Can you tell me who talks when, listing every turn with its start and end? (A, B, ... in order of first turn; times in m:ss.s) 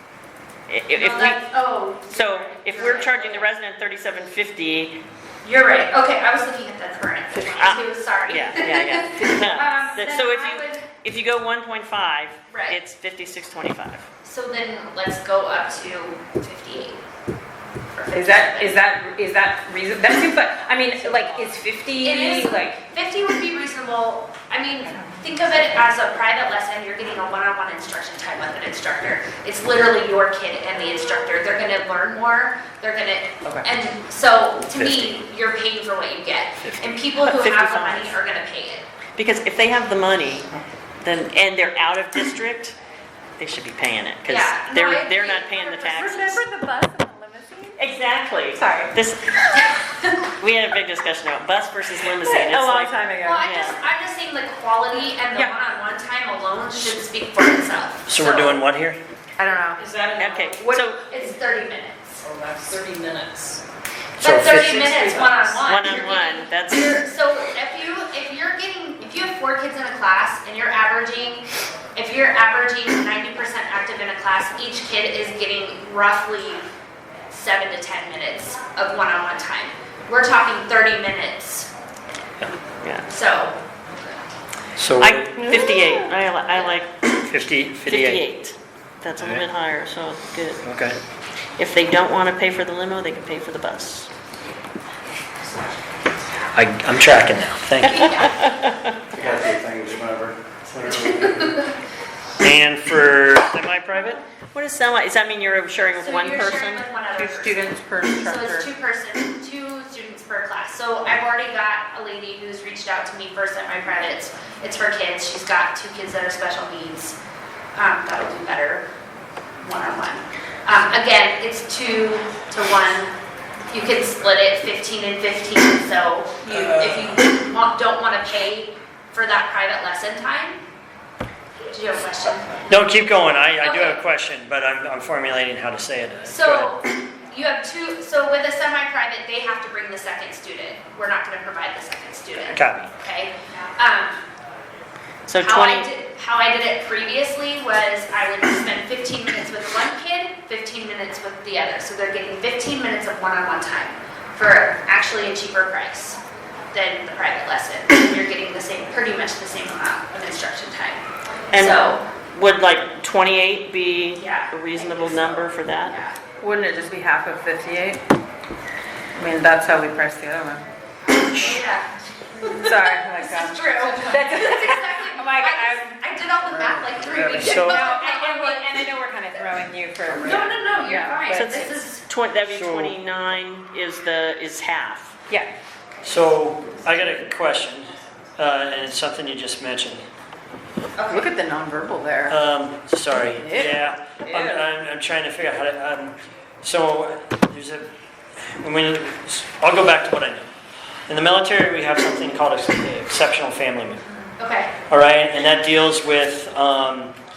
0:00.7-0:01.4 A
0:00.9-0:03.5 B
0:02.1-0:05.0 A
0:05.4-0:10.8 B
0:07.4-0:14.1 A
0:12.5-0:12.8 B
0:14.2-0:17.0 B
0:17.9-0:18.7 B
0:18.1-0:22.8 C
0:22.0-0:38.9 B
0:24.9-0:25.2 C
0:34.7-0:35.2 D
0:36.6-0:37.0 D
0:37.2-0:38.2 A
0:39.2-0:40.5 A
0:41.0-0:42.8 A
0:43.4-0:46.4 A
0:44.3-0:46.4 B
0:46.2-0:47.8 C
0:47.8-0:49.7 A
0:48.6-0:49.0 C
0:49.8-0:50.0 B
0:50.4-0:53.8 A
0:52.2-0:53.4 C
0:53.2-0:58.6 B
0:58.1-0:59.0 D
0:59.4-0:59.8 C
0:59.8-1:00.6 E
1:00.2-1:01.1 A
1:00.7-1:02.2 B
1:02.2-1:03.6 E
1:04.2-1:05.4 D
1:04.2-1:16.6 B
1:05.6-1:07.1 A
1:17.3-1:21.7 B
1:22.8-1:23.1 A
1:23.1-1:23.6 B
1:24.8-1:25.4 D
1:25.0-1:27.2 A
1:27.3-1:28.3 D
1:27.8-1:30.6 A
1:29.2-1:29.4 D
1:30.6-1:31.0 D
1:31.6-1:34.1 A
1:36.5-1:38.3 D
1:37.9-1:38.5 B
1:38.2-1:38.9 A
1:39.2-1:39.5 B
1:39.2-1:41.5 F
1:40.7-1:41.4 D
1:42.4-1:44.2 D
1:44.5-1:47.0 A
1:45.9-1:57.2 B
1:47.1-1:48.7 C
1:57.8-1:58.9 B
1:59.6-2:03.1 B
2:03.7-2:10.6 B
2:11.7-2:12.5 B
2:12.7-2:16.8 D
2:13.6-2:14.0 B
2:16.3-2:24.2 B
2:22.5-2:22.9 D
2:25.3-2:25.9 A
2:25.4-2:36.2 B
2:36.7-2:42.0 B
2:41.5-2:46.0 A
2:44.2-2:46.2 B
2:46.4-2:48.0 C
2:49.2-2:50.7 C
2:51.2-2:51.6 D
2:51.3-2:58.9 B
2:52.6-2:56.0 C
2:56.7-3:01.5 C
2:57.3-2:57.9 D
3:00.2-3:02.0 B
3:01.3-3:05.1 A
3:02.5-3:03.0 D
3:06.0-3:10.0 D
3:11.0-3:11.3 B
3:11.1-3:12.4 C
3:12.3-3:17.9 D
3:13.1-3:14.7 C
3:18.6-3:20.5 D
3:21.1-3:24.0 D
3:24.4-3:24.7 B
3:24.9-3:27.1 D